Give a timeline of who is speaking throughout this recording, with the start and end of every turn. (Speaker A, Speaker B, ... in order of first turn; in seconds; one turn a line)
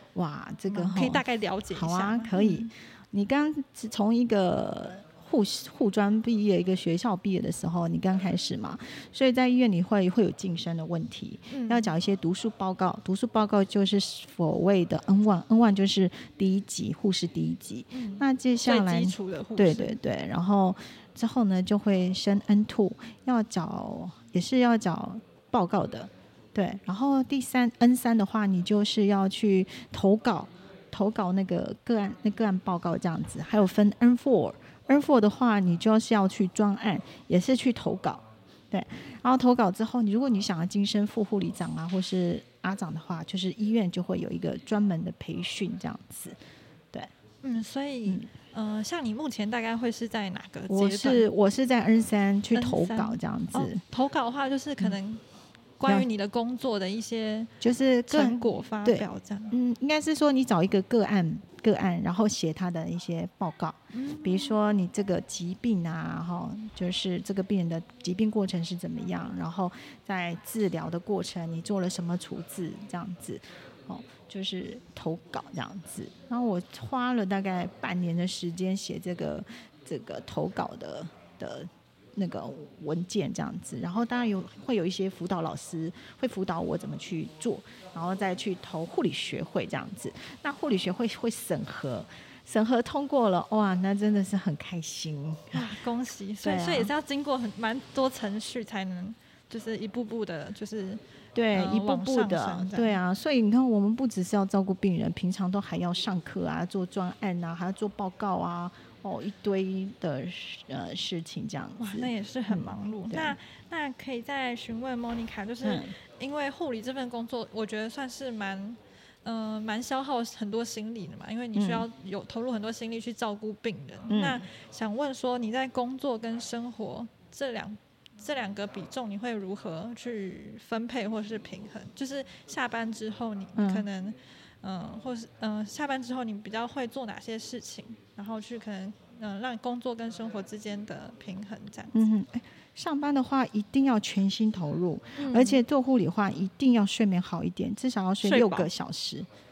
Speaker A: 0.1-46.4
Speaker B: 0.7-2.7
Speaker B: 11.5-11.9
Speaker B: 17.9-20.0
Speaker B: 47.4-51.3
Speaker A: 48.0-48.3
Speaker A: 50.7-53.8
Speaker B: 52.5-55.2
Speaker B: 55.8-57.5
Speaker A: 57.6-95.8
Speaker B: 58.1-59.5
Speaker B: 63.9-64.5
Speaker B: 95.5-101.0
Speaker A: 96.4-96.9
Speaker A: 101.3-113.4
Speaker B: 101.5-103.0
Speaker B: 111.8-142.0
Speaker A: 115.6-116.0
Speaker A: 121.5-121.9
Speaker A: 124.1-124.5
Speaker A: 133.6-133.9
Speaker A: 141.9-149.3
Speaker B: 145.2-145.6
Speaker B: 148.2-148.7